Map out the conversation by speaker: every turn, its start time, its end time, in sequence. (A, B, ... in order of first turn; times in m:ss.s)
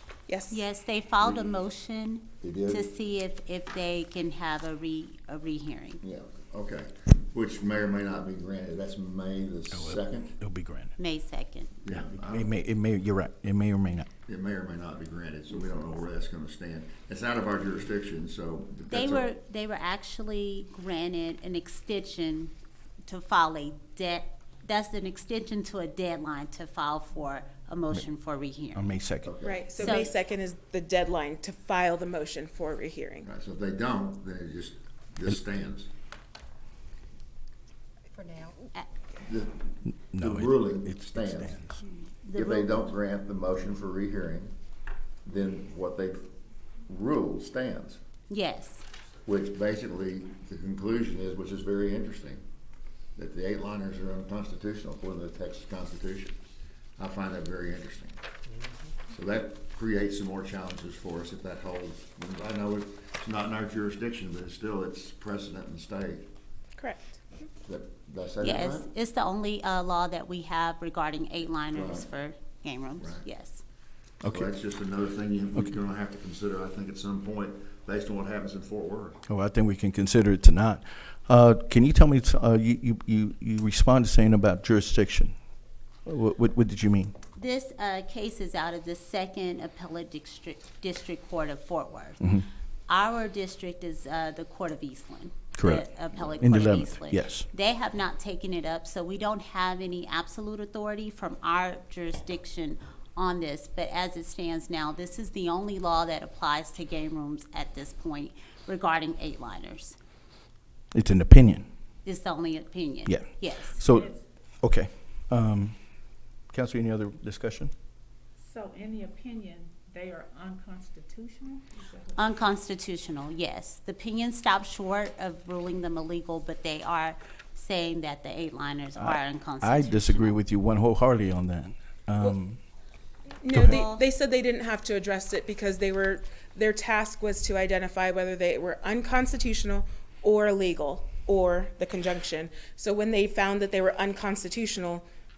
0:00.3-0:00.6 A
0:00.5-0:06.0 B
0:01.2-0:01.5 C
0:02.4-0:02.9 C
0:06.0-0:10.4 C
0:09.7-0:10.9 D
0:11.0-0:11.7 B
0:11.8-0:12.5 C
0:11.9-0:14.1 D
0:14.2-0:19.3 C
0:18.9-0:22.5 B
0:23.1-0:28.9 B
0:28.7-0:29.3 D
0:29.2-0:29.7 C
0:29.4-0:33.3 A
0:29.8-0:30.2 B
0:33.2-0:35.9 C
0:39.2-0:41.6 C
0:39.9-0:41.8 D
0:41.8-0:42.9 B
0:42.4-0:44.5 C
0:45.2-0:46.2 C
0:46.9-0:48.0 C
0:48.3-0:48.8 B
0:49.2-0:52.4 C
0:53.2-0:56.3 C
0:57.0-0:58.2 C
0:59.1-1:06.3 C
1:06.8-1:07.2 A
1:07.6-1:08.9 C
1:08.4-1:13.6 B
1:11.7-1:12.0 C
1:13.0-1:13.3 C
1:14.2-1:19.2 C
1:14.2-1:14.5 D
1:19.3-1:25.3 D
1:26.0-1:27.1 D
1:27.4-1:50.0 B
1:35.6-1:35.9 D
1:36.4-1:37.5 D
1:50.9-1:51.7 D
1:52.0-1:53.8 B
1:53.0-1:55.8 D
1:53.8-1:54.2 E
1:56.5-1:57.7 D
1:58.4-2:02.2 E
2:02.1-2:10.4 B
2:09.0-2:12.6 D
2:13.4-2:25.0 A
2:13.5-2:13.8 D
2:13.6-2:14.0 B